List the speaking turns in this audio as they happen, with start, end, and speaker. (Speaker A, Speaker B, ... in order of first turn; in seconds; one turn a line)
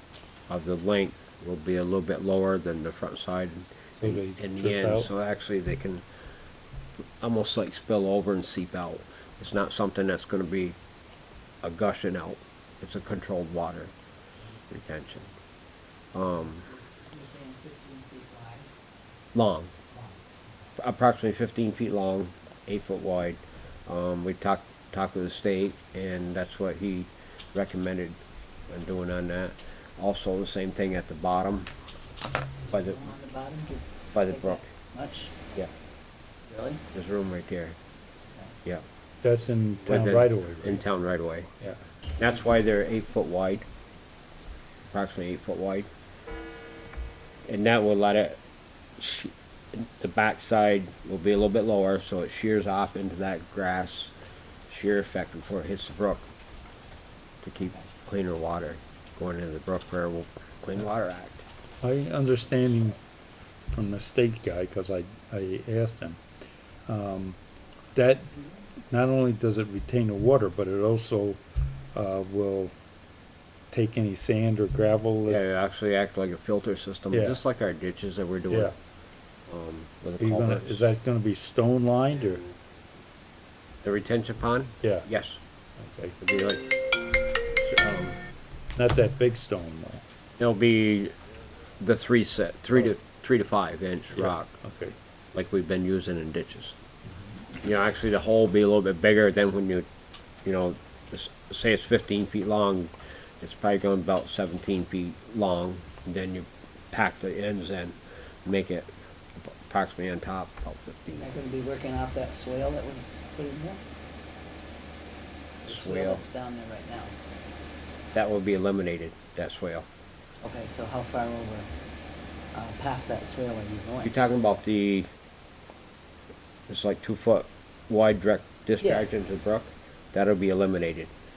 Speaker A: 0.5-6.0
Speaker B: 4.0-5.1
Speaker A: 7.2-10.8
Speaker A: 11.6-13.9
Speaker A: 14.7-15.3
Speaker A: 16.1-16.7
Speaker C: 16.3-18.7
Speaker A: 19.3-19.7
Speaker C: 19.9-20.2
Speaker A: 20.8-31.7
Speaker C: 32.6-35.4
Speaker A: 32.7-33.0
Speaker A: 34.1-34.6
Speaker C: 36.5-36.8
Speaker A: 36.9-37.8
Speaker B: 39.2-40.8
Speaker A: 39.8-41.5
Speaker A: 42.2-43.6
Speaker A: 44.9-45.9
Speaker A: 47.5-48.4
Speaker A: 49.0-54.1
Speaker A: 54.7-56.2
Speaker A: 57.4-61.4
Speaker B: 61.8-63.0
Speaker B: 63.7-66.2
Speaker B: 66.9-67.4
Speaker B: 67.9-68.3
Speaker B: 68.9-71.4
Speaker B: 71.9-72.7
Speaker B: 73.7-75.5
Speaker A: 75.3-78.7
Speaker B: 77.1-77.4
Speaker A: 79.5-80.8
Speaker B: 80.2-82.4
Speaker A: 83.8-85.4
Speaker B: 85.8-86.1
Speaker A: 86.2-86.6
Speaker A: 87.6-88.2
Speaker B: 88.8-90.0
Speaker A: 90.4-91.1
Speaker A: 91.8-94.6
Speaker B: 94.2-94.9
Speaker A: 95.3-96.7
Speaker A: 97.6-99.8
Speaker A: 100.4-111.3
Speaker C: 111.1-113.8
Speaker A: 115.6-116.2
Speaker C: 115.6-117.1
Speaker A: 118.1-119.9
Speaker C: 120.4-121.7
Speaker C: 122.5-124.1
Speaker A: 124.0-125.1
Speaker A: 126.7-131.1